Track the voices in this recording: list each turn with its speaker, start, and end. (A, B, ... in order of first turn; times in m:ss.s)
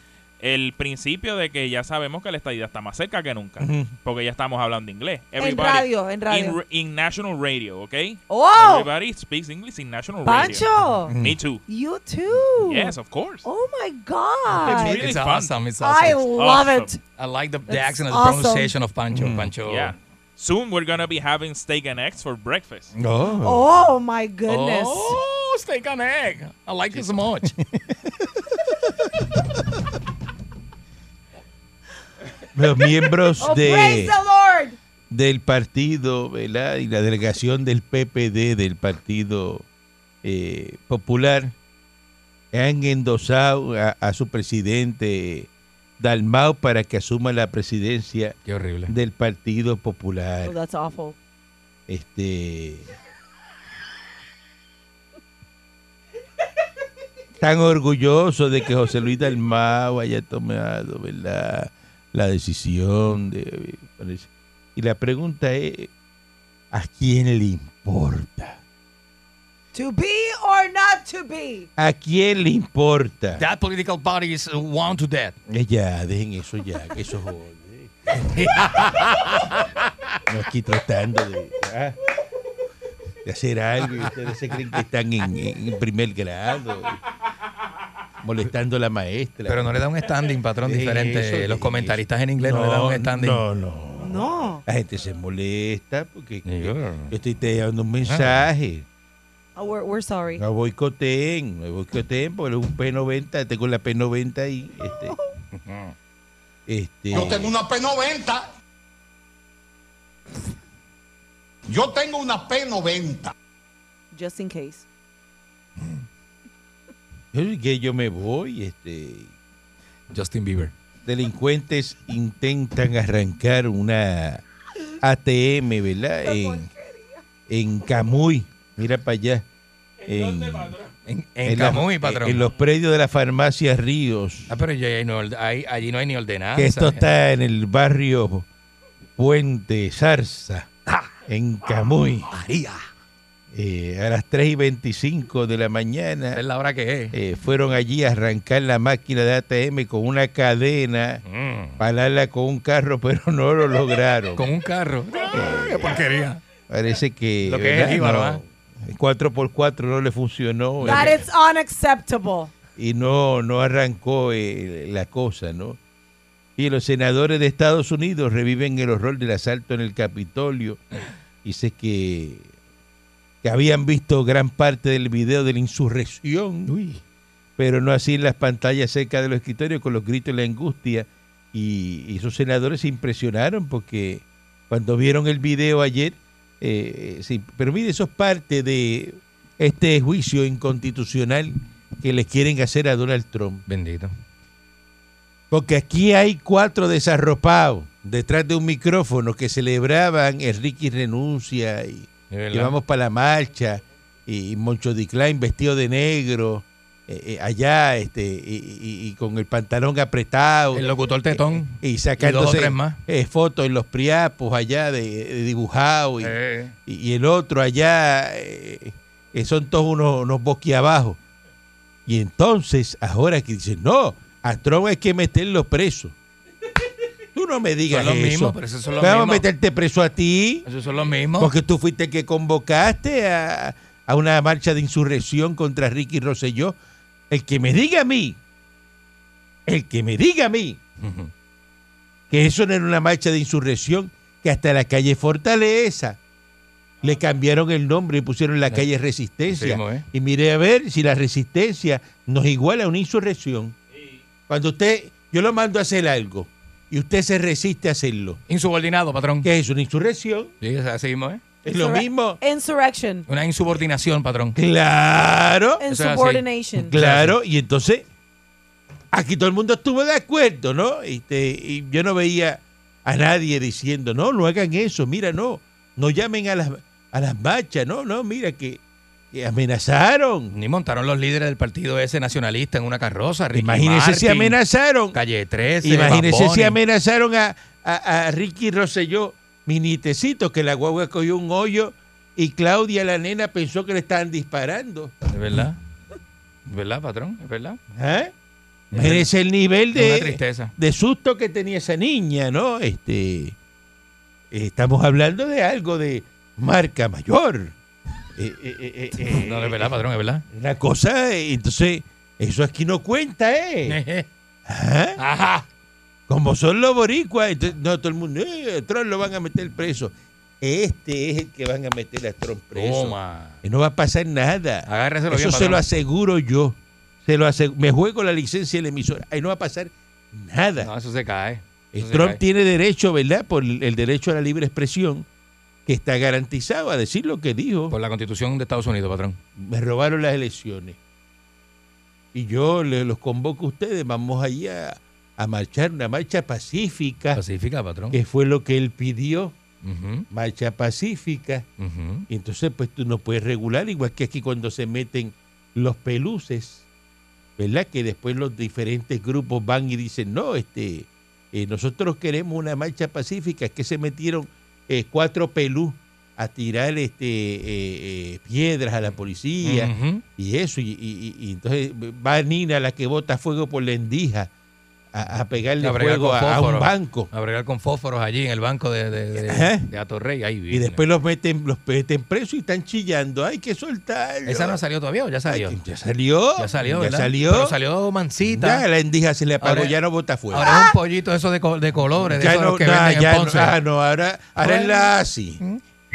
0:00.4-0:11.6 A
0:03.6-0:03.9 B
0:05.4-0:06.6 C
0:08.3-0:08.9 C
0:10.2-0:11.1 C
0:11.1-0:11.4 B
0:11.7-0:15.0 C
0:12.6-0:13.4 A
0:14.6-0:15.6 A
0:14.6-0:16.3 D
0:14.6-0:15.0 B
0:15.8-0:17.0 C
0:16.3-0:16.9 A
0:17.2-0:19.9 D
0:17.7-0:18.7 C
0:19.1-0:19.5 B
0:19.6-0:22.9 A
0:23.0-0:23.7 B
0:23.4-0:25.2 C
0:24.5-0:27.5 D
0:26.9-0:28.4 B
0:32.5-0:34.2 B
0:33.4-0:34.8 C
0:35.1-0:39.6 B
0:40.2-0:41.5 B
0:42.5-0:45.5 B
0:46.0-0:48.3 B
0:48.4-0:48.9 D
0:48.9-0:50.5 B
0:50.4-0:51.2 C
0:51.9-0:52.9 B
0:57.4-1:05.9 B
1:06.7-1:08.6 B
1:09.7-1:11.7 C
1:11.8-1:13.4 B
1:13.4-1:15.4 D
1:15.5-1:19.2 B
1:18.2-1:19.7 D
1:20.3-1:22.0 B
1:23.2-1:27.0 B
1:28.2-1:29.7 B
1:29.4-1:33.4 D
1:30.6-1:38.8 B
1:34.0-1:34.6 C
1:36.4-1:37.1 D
1:38.0-1:38.4 D
1:39.6-1:40.4 C
1:40.4-1:45.1 B
1:44.8-1:45.4 C
1:45.5-1:45.9 D
1:46.7-1:47.5 B
1:47.1-1:48.4 E
1:51.7-1:53.3 E
1:54.1-1:54.8 C
1:57.3-1:59.3 B
2:00.1-2:00.7 D
2:01.0-2:04.4 B
2:05.0-2:06.7 B
2:06.2-2:07.2 C
2:07.5-2:09.4 B
2:10.0-2:10.8 B
2:11.0-2:12.4 D
2:11.4-2:14.6 B
2:14.5-2:17.1 D
2:16.5-2:18.4 B
2:19.2-2:20.7 B
2:21.2-2:22.3 B
2:22.3-2:22.8 D
2:23.5-2:26.4 B
2:26.3-2:27.2 D
2:27.1-2:31.2 B
2:31.2-2:31.8 D
2:31.8-2:34.4 B
2:34.4-2:36.4 D
2:35.2-2:36.0 B
2:36.7-2:41.1 B
2:37.4-2:38.4 D
2:40.8-2:41.2 D
2:40.8-2:42.5 C
2:42.8-2:45.8 B
2:46.6-2:50.8 B
2:51.4-2:52.5 B
2:53.4-2:56.7 B
2:56.7-2:57.0 D
2:57.6-3:13.6 B
3:13.7-3:14.1 D
3:15.5-3:36.3 B
3:22.3-3:22.7 D
3:30.7-3:33.0 D
3:36.2-3:36.7 D
3:36.8-3:41.2 B
3:42.0-3:46.1 B
3:47.3-3:50.7 B
3:47.9-3:49.4 D
3:50.6-3:51.5 D
3:51.4-3:56.7 B
3:57.3-3:58.4 B
3:59.6-4:00.8 B
4:01.0-4:01.3 D
4:02.3-4:06.2 B
4:07.0-4:13.8 B
4:09.5-4:10.0 D
4:14.5-4:18.4 B
4:18.5-4:19.5 D
4:19.4-4:20.5 B
4:20.6-4:21.4 D
4:21.6-4:22.4 B
4:21.7-4:23.2 C
4:23.3-4:24.6 D
4:24.5-4:25.8 B
4:25.8-4:26.9 C
4:25.9-4:27.4 D
4:26.8-4:28.0 B
4:29.1-4:38.8 B
4:39.3-4:40.5 B
4:40.5-4:44.6 D
4:43.5-4:45.2 B
4:45.1-4:46.8 D
4:45.8-4:55.1 B
4:55.3-4:55.8 D
4:56.7-4:57.8 D
4:57.9-4:58.3 B
4:58.9-4:59.3 D
4:58.9-5:03.6 B
4:59.9-5:00.7 D
5:04.5-5:07.7 B
5:08.4-5:10.0 B
5:09.3-5:10.4 D
5:10.5-5:14.0 B
5:13.8-5:14.2 D
5:14.6-5:15.2 B
5:15.2-5:15.6 D
5:16.3-5:30.9 B
5:22.7-5:23.6 D
5:24.8-5:25.8 D
5:30.8-5:32.4 D
5:31.9-5:35.2 B
5:35.8-5:38.0 B
5:37.9-5:39.4 D
5:39.6-5:41.0 B
5:42.3-5:47.4 B
5:47.3-5:48.2 D
5:48.1-5:49.6 B
5:49.8-5:50.3 D
5:50.3-5:51.7 B
5:51.8-5:52.3 D
5:52.3-5:56.8 B
5:57.6-6:14.5 B
6:09.6-6:10.2 D
6:15.1-6:17.3 B
6:15.8-6:21.0 D
6:19.4-6:19.9 B
6:20.7-6:24.8 B
6:24.4-6:25.8 D
6:25.5-6:27.8 B
6:26.6-6:28.8 D
6:28.4-6:30.7 B
6:29.6-6:29.9 D
6:30.5-6:33.8 D
6:30.6-6:30.9 C
6:32.2-6:35.6 B
6:34.6-6:35.8 D